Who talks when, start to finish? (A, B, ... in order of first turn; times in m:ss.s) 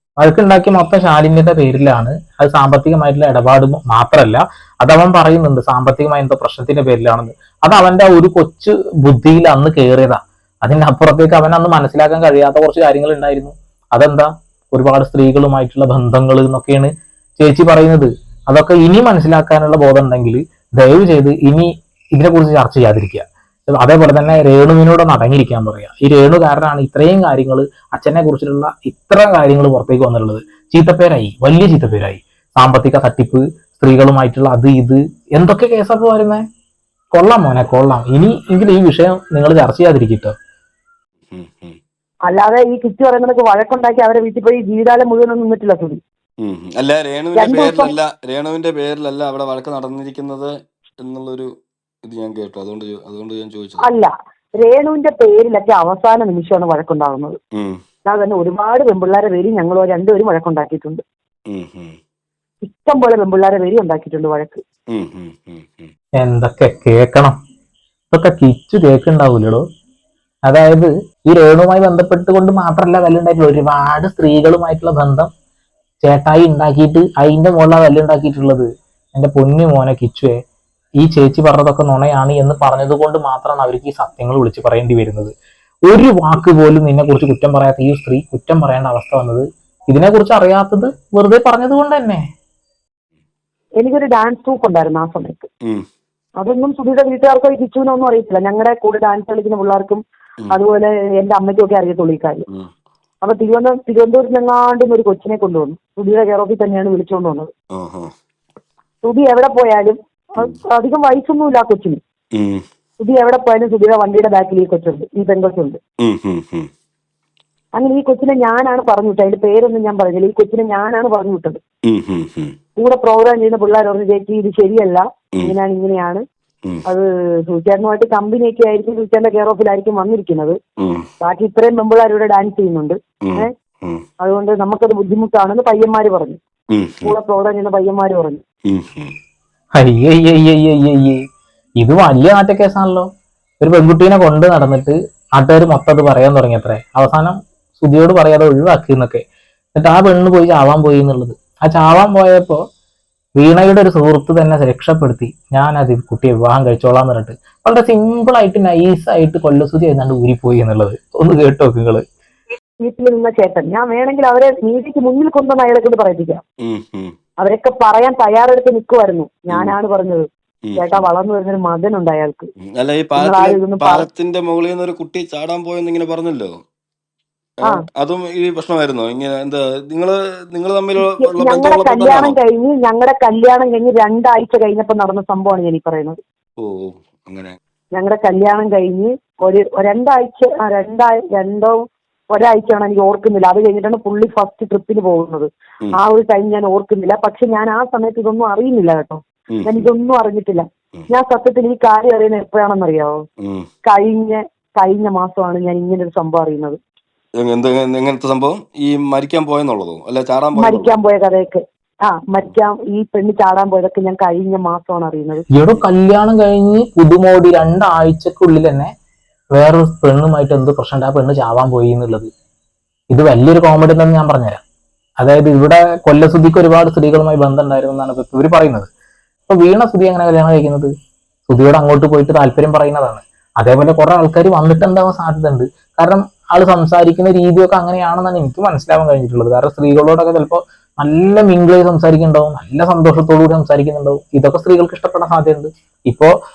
0:00.2-0:36.4 A
0:37.2-0:40.3 A
0:41.3-0:41.8 B
0:42.3-0:46.0 C
0:46.4-0:51.5 B
0:47.4-0:47.9 C
0:52.1-0:53.9 B
0:53.8-0:57.4 C
0:57.6-0:57.8 B
0:58.0-1:01.0 C
1:01.5-1:02.0 B
1:02.6-1:04.6 C
1:04.9-1:05.9 B
1:06.2-1:07.4 A
1:08.1-1:09.6 A
1:10.5-1:15.3 A
1:16.0-1:20.3 A
1:21.0-1:25.3 A
1:25.9-1:32.2 A
1:33.8-1:35.5 C
1:36.4-1:42.4 C
1:43.2-1:47.5 C
1:47.8-1:48.1 B
1:49.0-1:52.0 C
1:52.4-1:52.6 B
1:53.0-1:55.8 C
1:56.0-1:56.7 B
1:57.8-2:01.6 C
2:01.9-2:02.5 B
2:02.8-2:06.2 C
2:06.8-2:10.6 C
2:10.8-2:11.1 B
2:11.2-2:13.5 C
2:13.2-2:14.0 B
2:14.2-2:16.4 C
2:16.7-2:17.2 B
2:17.0-2:18.4 C
2:18.7-2:19.1 B
2:19.8-2:21.2 A
2:21.8-2:23.1 A
2:23.6-2:32.6 A
2:33.4-2:42.0 A
2:42.8-2:46.4 C
2:46.6-2:47.1 B
2:47.4-2:50.2 C
2:50.7-2:51.1 B
2:50.8-2:52.5 C
2:52.8-2:56.5 B
2:53.2-2:54.0 C
2:57.6-3:02.4 B
3:01.0-3:06.2 C
3:06.6-3:07.6 B
3:07.9-3:11.8 C
3:12.3-3:23.2 C
3:19.6-3:19.9 B
3:23.4-3:23.7 B
3:23.8-3:26.8 C
3:27.4-3:31.0 B
3:30.5-3:35.5 C
3:35.5-3:38.9 A
3:39.6-3:42.3 A
3:43.1-3:44.6 A
3:45.2-3:48.9 A
3:49.5-3:50.9 A
3:51.5-4:06.3 A